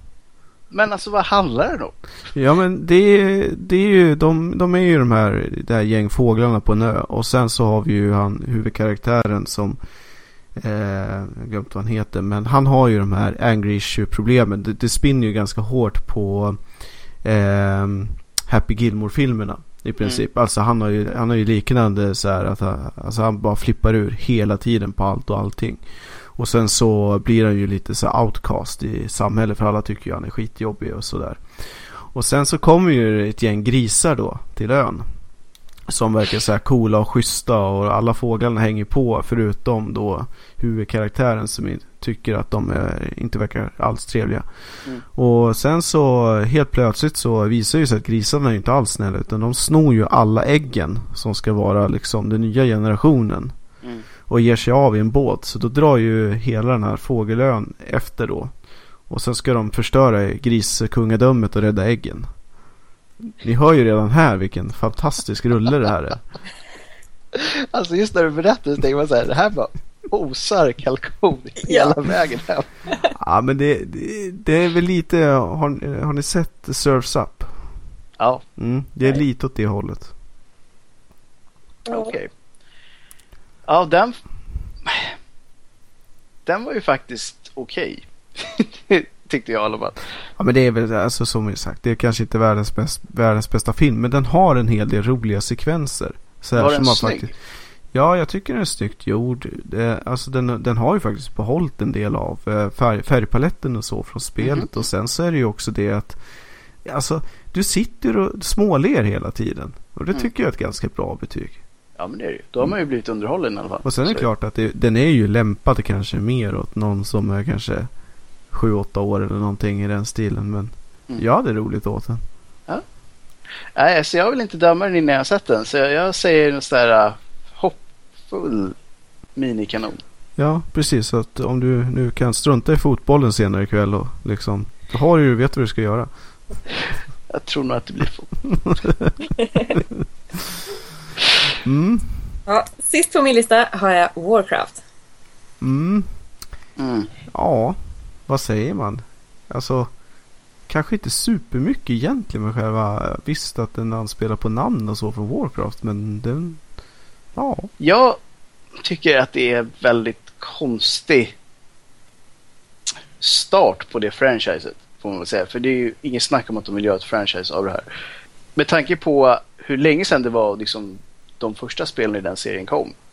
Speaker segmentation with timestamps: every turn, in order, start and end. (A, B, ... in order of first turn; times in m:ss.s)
0:00.7-0:02.0 A
0:02.3-0:09.8 B
0:10.6-0:16.6 B
0:17.2-0:25.8 B
0:26.3-0:35.1 B
0:35.9-0:44.4 B
0:45.0-0:53.5 B
0:54.3-0:58.5 B
0:59.1-1:02.3 B
1:03.4-1:06.2 B
1:07.3-1:12.7 A
1:11.6-1:11.9 C
1:13.1-1:17.7 B
1:18.2-1:18.4 A
1:18.6-1:20.1 B
1:21.9-1:22.1 C
1:21.9-1:22.3 A
1:23.7-1:24.2 A
1:24.8-1:25.1 A
1:26.4-1:30.0 A
1:30.4-1:37.3 B
1:36.6-1:37.3 A
1:37.9-1:46.2 B
1:44.4-1:44.7 A
1:46.8-1:51.6 B
1:52.0-1:54.2 A
1:53.8-1:57.9 B
1:58.5-2:02.2 B
2:03.8-2:08.8 A
2:09.4-2:10.0 A
2:10.4-2:16.1 B
2:17.3-2:18.3 A
2:18.5-2:19.1 B
2:19.8-2:20.0 B
2:21.6-2:22.4 B
2:22.5-2:24.8 C
2:25.6-2:26.1 B
2:26.8-2:27.1 A
2:27.3-2:29.9 B
2:30.7-2:36.6 B
2:37.3-2:37.7 B
2:37.8-2:38.2 A
2:38.8-2:41.3 A
2:43.2-2:47.8 A
2:48.6-2:52.9 A